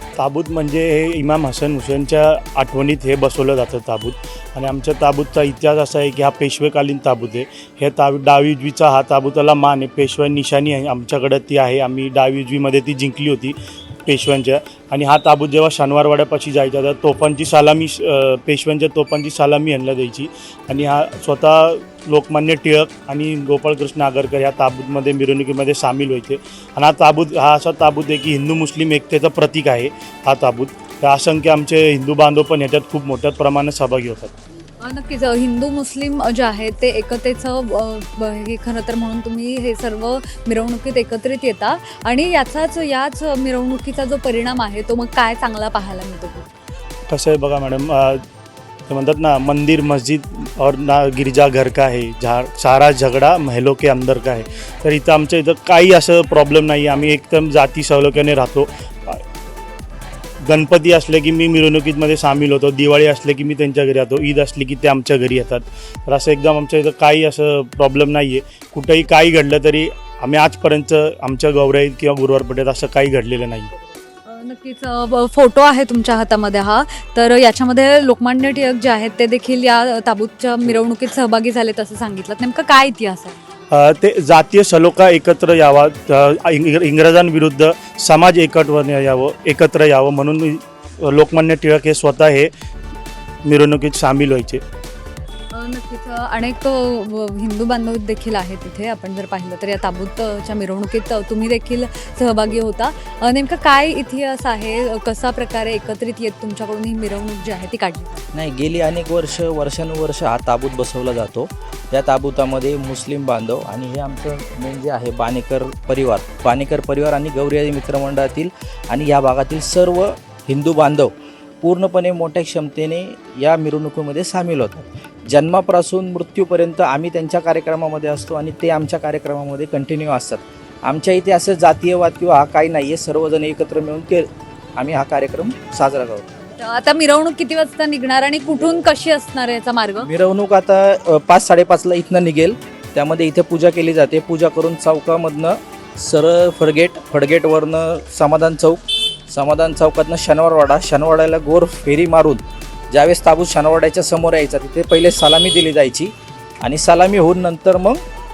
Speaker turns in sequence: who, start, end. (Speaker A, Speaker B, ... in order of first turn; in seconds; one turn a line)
Speaker A: 0.2-34.3
Speaker B: 34.8-46.5
Speaker A: 47.1-48.2
Speaker A: 48.9-59.2
Speaker A: 60.4-73.7
Speaker B: 74.2-83.4
Speaker A: 83.7-92.5
Speaker A: 93.4-94.6
Speaker B: 95.5-108.2
Speaker C: 108.3-136.2
Speaker B: 136.6-140.1
Speaker C: 140.0-158.0